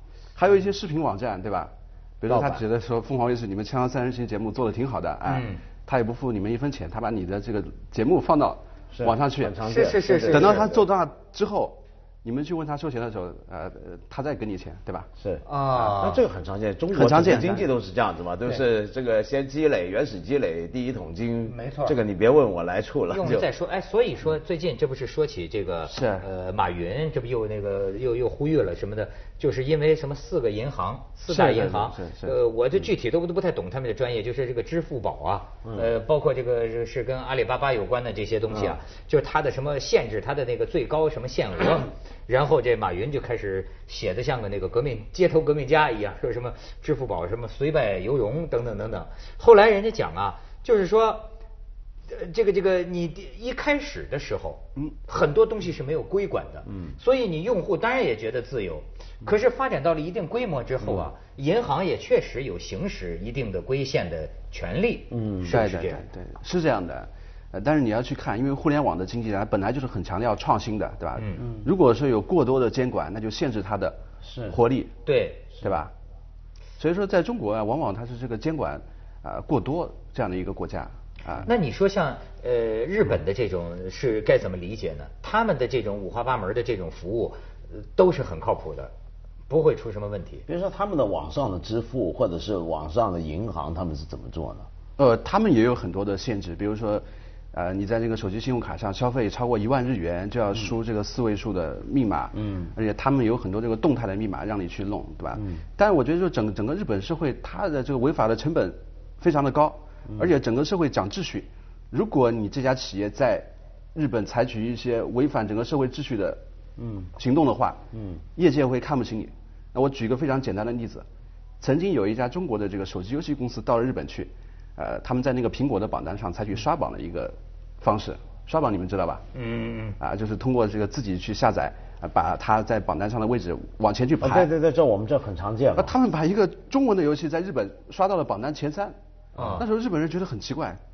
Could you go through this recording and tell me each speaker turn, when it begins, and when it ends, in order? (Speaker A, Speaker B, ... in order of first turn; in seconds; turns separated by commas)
Speaker A: 0.3-9.6, Speaker B: 2.3-2.6, Speaker C: 5.2-5.6, Speaker B: 8.9-10.8, Speaker C: 9.6-10.7, Speaker A: 10.3-15.1, Speaker B: 15.2-23.5, Speaker C: 15.4-16.2, Speaker A: 16.9-17.7, Speaker C: 21.4-21.9, Speaker C: 23.1-51.3, Speaker A: 25.9-26.2, Speaker A: 31.3-32.3, Speaker B: 35.6-35.9, Speaker B: 38.5-38.8, Speaker C: 52.1-66.1, Speaker B: 56.7-57.0, Speaker B: 65.1-65.6, Speaker A: 65.5-74.9, Speaker C: 71.2-71.4, Speaker B: 71.4-71.7, Speaker B: 74.2-74.6, Speaker C: 75.0-75.5, Speaker A: 75.6-75.9, Speaker A: 76.8-81.5, Speaker C: 81.4-88.9, Speaker C: 89.5-90.5, Speaker B: 90.5-94.7, Speaker A: 95.0-116.4, Speaker B: 102.3-102.7, Speaker B: 105.3-105.6, Speaker B: 110.1-110.3, Speaker B: 116.8-117.1, Speaker A: 117.2-117.8, Speaker B: 117.9-118.2, Speaker A: 118.3-121.0, Speaker A: 121.6-129.2, Speaker C: 129.3-129.9, Speaker A: 130.0-134.5, Speaker B: 134.2-135.9, Speaker A: 135.8-138.9, Speaker C: 139.3-139.7, Speaker A: 139.6-140.8